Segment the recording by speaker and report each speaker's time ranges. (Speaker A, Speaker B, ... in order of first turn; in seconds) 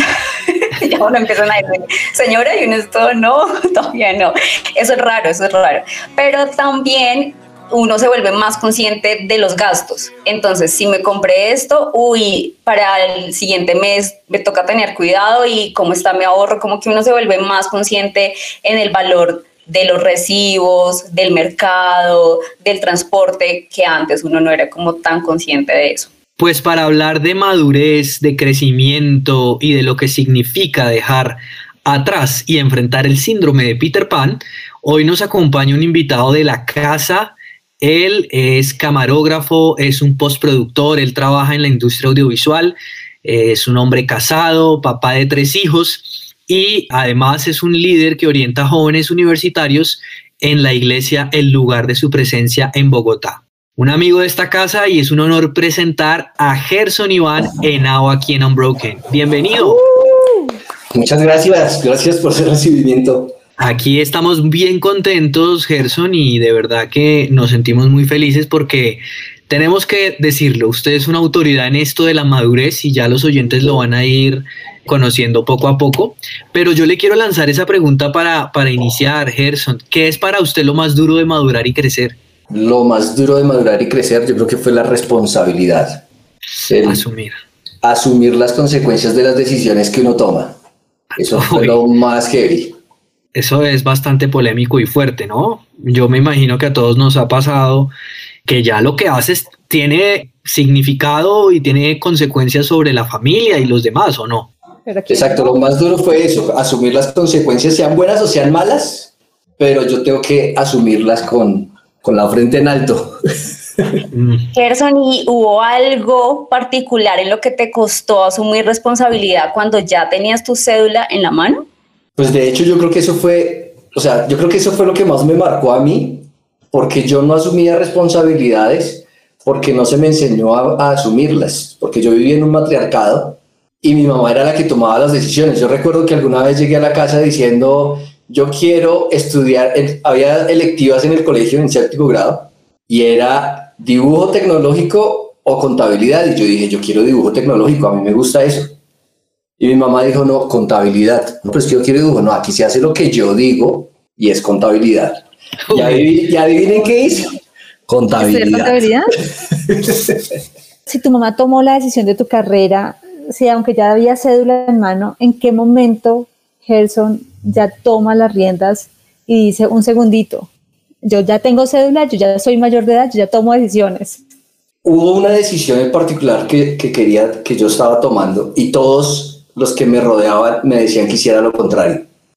Speaker A: 0.5-26.1, 114.5-121.7
Speaker B: 26.4-59.8, 63.6-82.2, 86.8-87.4, 91.2-91.8, 93.3-97.9, 98.5-104.5, 114.1-114.4, 155.7-156.1
Speaker C: 60.9-63.4, 82.5-86.0, 86.7-87.0, 87.8-90.6, 91.2-92.8, 105.1-113.1, 113.8-114.0, 122.2-148.8, 149.6-157.3, 157.9-158.9, 159.5-160.2, 174.8-182.1
Speaker D: 104.8-105.6, 158.2-159.1, 160.9-170.5, 171.1-174.2